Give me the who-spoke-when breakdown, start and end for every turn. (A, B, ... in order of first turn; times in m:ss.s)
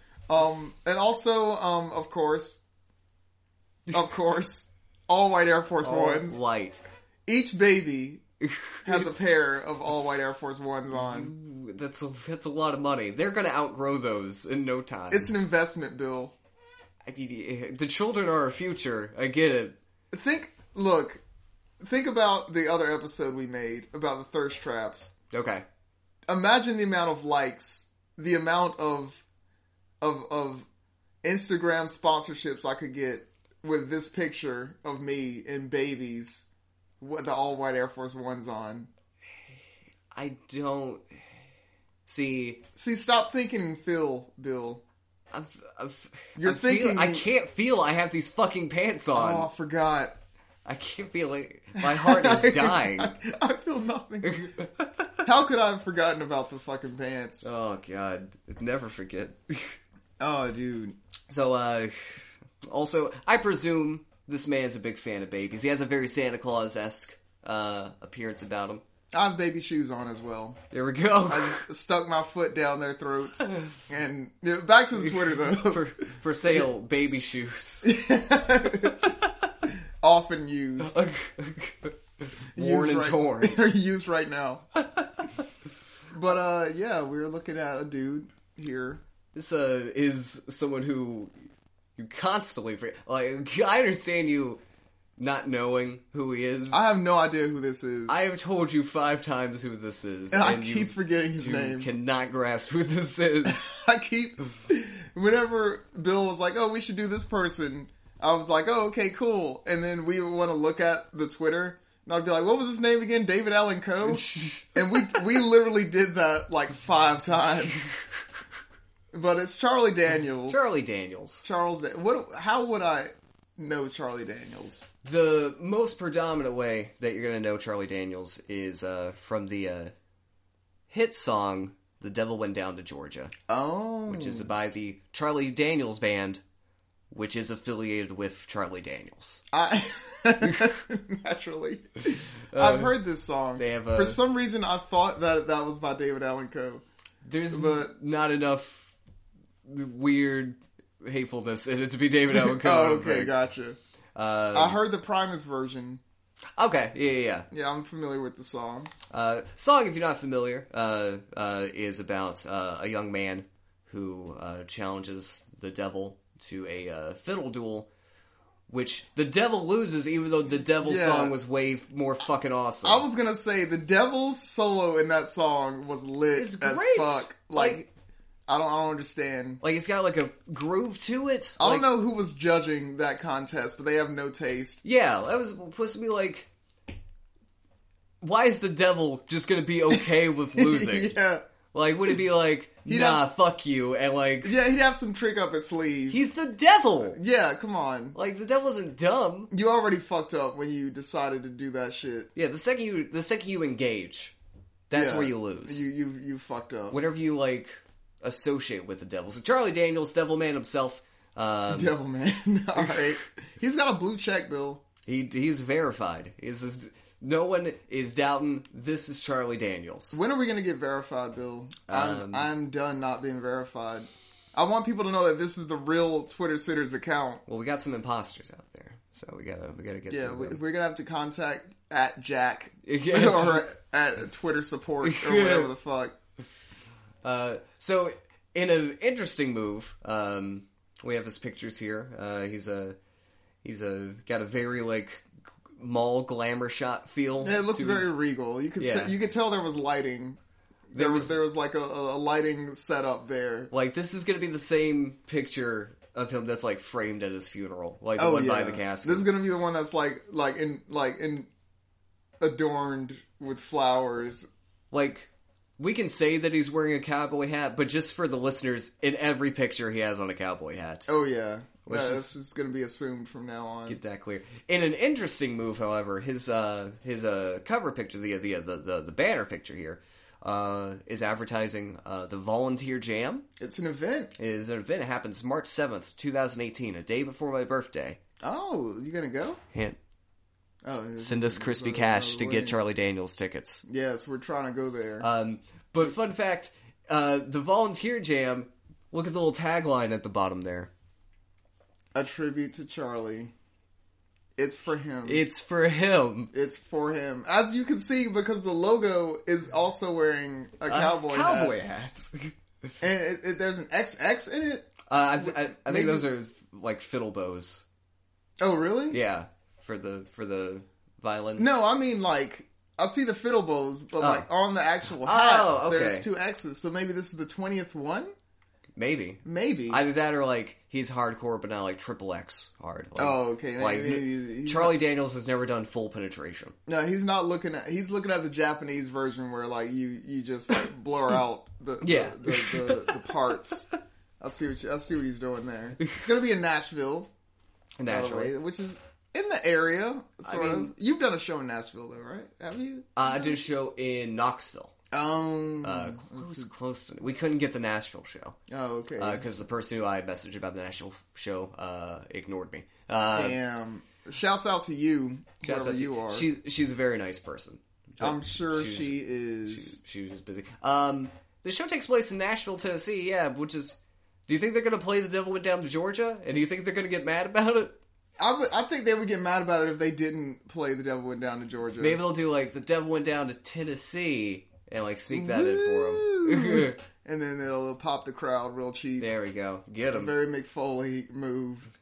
0:00.3-0:02.6 A
0:03.9-0:06.4 A
0:05.8-0:06.8 B
0:07.3-0:08.2 A
0:08.4-0:09.1 B
0:08.8-0:11.3 A
0:10.9-0:15.3 B
0:15.1-0:16.4 A
0:17.1-0:19.8 B
0:20.1-0:21.2 A
0:21.8-0:25.1 A
0:25.3-0:25.6 B
0:26.3-0:29.2 A
0:30.0-0:30.7 A
0:31.2-0:36.5 A
0:37.0-0:38.9 A
0:40.1-0:41.0 B
0:42.1-0:42.6 B
0:42.8-0:44.8 A
0:45.3-0:49.5 B
0:46.4-0:47.3 A
0:49.1-0:50.1 A
0:50.6-0:53.1 B
0:51.8-0:54.5 A
0:54.2-0:55.3 B
0:55.2-0:57.5 A
0:57.4-0:59.8 B
1:00.2-1:01.0 A
1:01.3-1:08.8 B
1:09.1-1:10.6 A
1:10.7-1:11.6 B
1:11.3-1:15.8 A
1:13.4-1:13.8 B
1:15.0-1:18.0 B
1:17.8-1:19.1 A
1:20.0-1:21.0 A
1:20.8-1:23.6 B
1:22.6-1:24.6 A
1:24.9-1:25.4 B
1:26.1-1:29.0 A
1:29.3-1:31.3 B
1:32.0-1:34.6 B
1:35.2-1:36.8 B
1:36.7-1:38.2 A
1:38.1-1:43.6 B
1:40.3-1:41.9 A
1:43.4-1:57.9 A
1:54.1-1:55.2 B
1:59.1-2:00.7 A
2:00.5-2:01.4 B
2:01.4-2:04.9 A
2:05.0-2:09.9 B
2:10.9-2:13.3 B
2:13.5-2:14.5 A
2:14.1-2:16.4 B
2:17.1-2:19.4 B
2:19.5-2:26.8 A
2:20.4-2:20.8 B
2:22.5-2:23.0 B
2:23.6-2:24.2 B
2:27.2-2:28.9 B
2:27.5-2:27.9 A
2:29.6-2:33.4 B
2:32.3-2:33.8 A
2:34.2-2:34.8 B
2:34.5-2:36.0 A
2:36.6-2:37.5 B
2:37.5-2:38.9 A
2:39.1-2:47.9 B
2:48.7-2:53.0 B
2:50.8-2:51.4 A
2:52.8-2:57.9 A
2:56.4-2:57.8 B
2:58.5-2:59.6 A
2:59.6-3:01.9 B
3:01.6-3:04.8 A
3:04.8-3:06.5 B
3:08.2-3:11.2 B
3:09.9-3:11.4 A
3:11.7-3:14.6 B
3:12.9-3:13.3 A
3:14.4-3:16.2 A
3:16.1-3:17.2 B
3:17.1-3:18.2 A
3:18.1-3:19.5 B
3:19.5-3:22.3 A
3:22.4-3:24.4 B
3:24.9-3:25.8 B
3:24.9-3:27.0 A
3:26.9-3:32.0 B
3:31.7-3:34.8 A
3:35.1-3:40.2 B
3:40.1-3:47.4 A
3:41.9-3:42.5 B
3:47.5-3:50.6 B
3:50.1-3:56.2 A
3:52.8-3:53.7 B
3:55.0-3:55.7 B
3:57.2-4:03.0 B
4:03.6-4:08.1 B
4:07.4-4:10.4 A
4:08.8-4:09.1 B
4:10.9-4:13.7 A
4:10.9-4:11.4 B
4:13.7-4:19.3 B
4:18.2-4:21.5 A
4:22.4-4:24.5 A
4:24.9-4:31.1 B
4:31.1-4:34.0 A
4:31.9-4:32.3 B
4:33.9-4:43.4 B
4:43.6-4:44.3 A
4:44.4-4:48.2 B
4:48.4-4:49.6 A
4:49.7-4:50.0 B
4:50.8-4:52.8 A
4:51.2-4:53.8 B
4:53.9-4:55.3 A
4:55.2-5:00.9 B
5:02.1-5:03.5 A
5:04.6-5:05.4 A
5:05.2-5:06.5 B
5:06.5-5:11.8 A
5:10.9-5:12.5 B
5:13.0-5:16.3 A
5:15.1-5:17.8 B
5:18.6-5:19.2 A
5:19.1-5:21.7 B
5:21.6-5:28.3 A
5:24.2-5:24.5 B
5:25.2-5:26.3 B
5:29.0-5:36.8 B
5:29.4-5:30.0 A
5:33.2-5:35.0 A
5:36.9-5:43.9 A
5:42.0-5:43.3 B
5:44.4-5:47.3 A
5:48.0-5:48.5 B
5:48.1-5:53.6 A
5:50.4-5:50.9 B
5:53.2-5:54.9 B
5:55.1-5:56.7 A
5:55.8-5:58.6 B
5:58.7-5:59.6 A
5:59.2-6:03.6 B
6:03.3-6:06.5 A
6:05.6-6:14.0 B
6:08.2-6:10.0 A
6:14.5-6:18.0 B
6:18.4-6:22.2 A
6:22.0-6:27.0 B
6:25.3-6:29.3 A
6:29.2-6:30.4 B
6:30.1-6:31.9 A